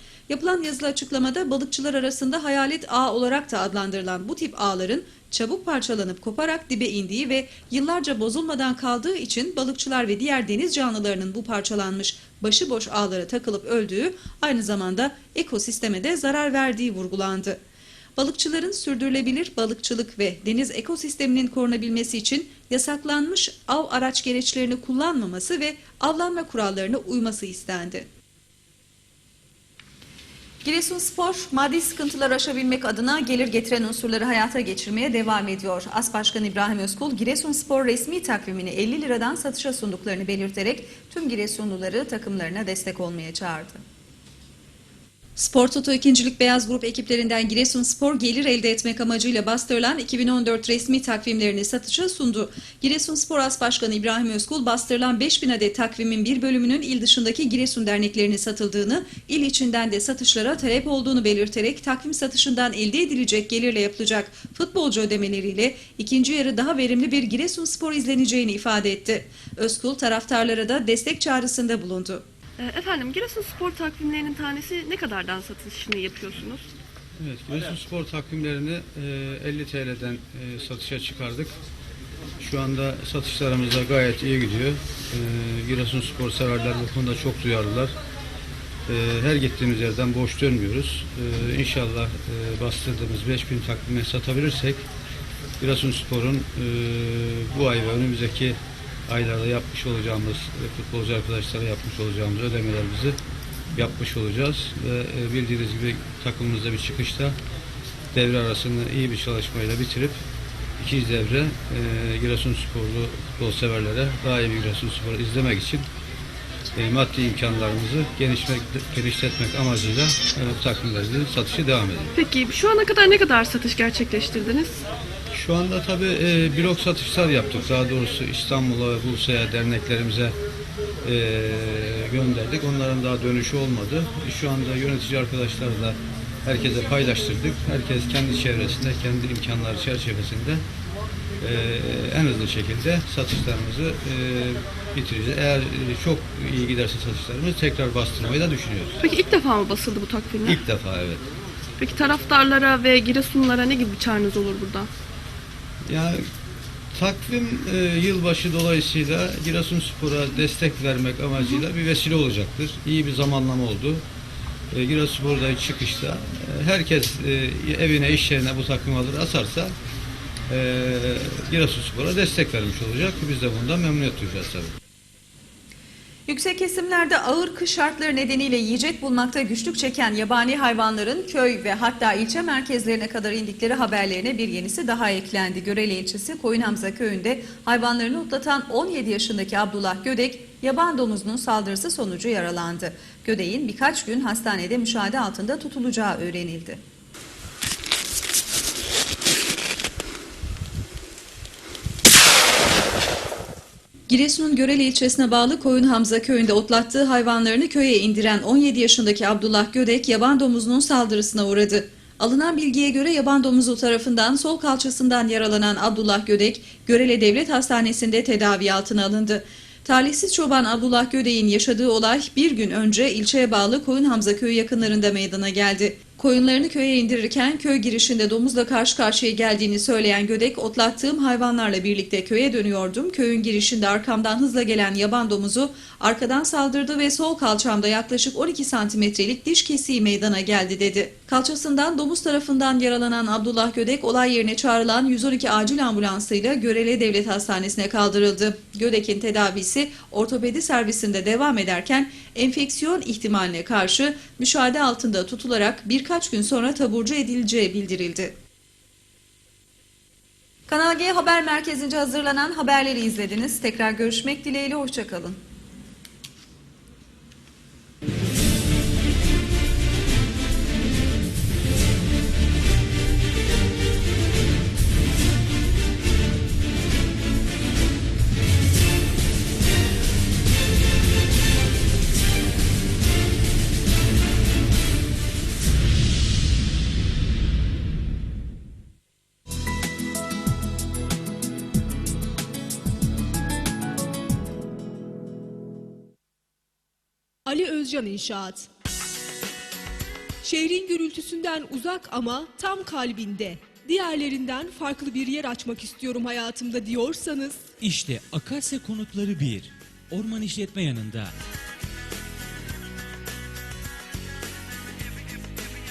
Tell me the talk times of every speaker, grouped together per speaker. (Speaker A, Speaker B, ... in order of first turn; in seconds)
Speaker A: 0.3-17.6, 18.2-28.1, 30.6-43.8, 45.4-72.2, 176.3-196.8, 204.1-258.3, 260.7-265.4
Speaker B: 72.6-76.7, 122.2-124.8, 149.0-150.6, 151.8-154.9, 161.4-161.6
Speaker C: 77.2-81.5, 82.4-87.9, 88.9-94.8, 95.6-98.6, 99.1-103.2, 103.7-107.4, 108.1-110.2, 110.8-115.9, 116.7-122.1, 125.3-130.3, 131.0-140.6, 141.4-149.0, 150.4-151.3, 155.9-156.3, 156.9-164.0, 164.7-169.7, 170.5-174.7
Speaker D: 297.5-298.7, 300.4-307.7
Speaker E: 307.8-311.3